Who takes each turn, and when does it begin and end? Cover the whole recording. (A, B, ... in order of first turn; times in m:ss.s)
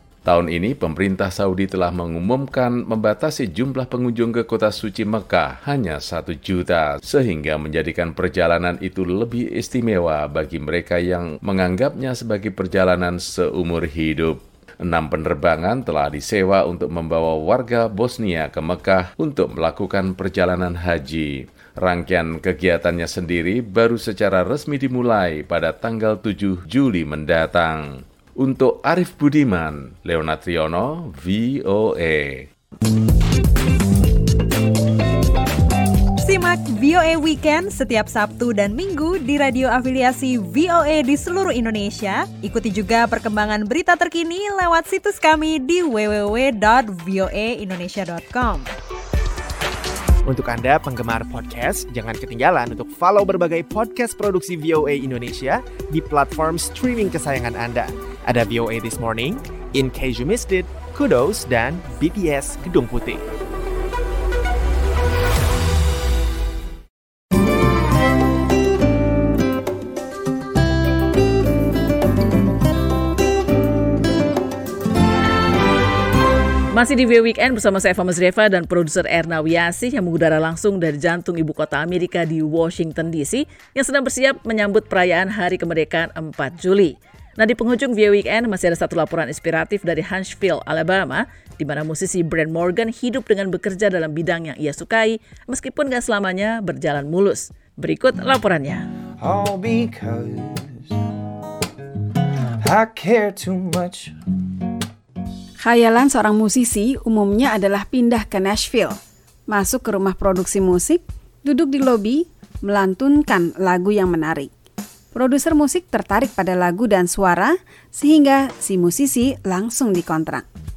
0:00.3-0:32.5 A
0:36.2-0:48.7 B
0:50.3-1:03.2 C
1:16.7-1:38.9 D
1:39.2-1:41.0 E
1:42.6-1:44.1 E
1:45.6-1:49.0 F
1:49.5-1:54.5 F
1:55.2-2:00.5 F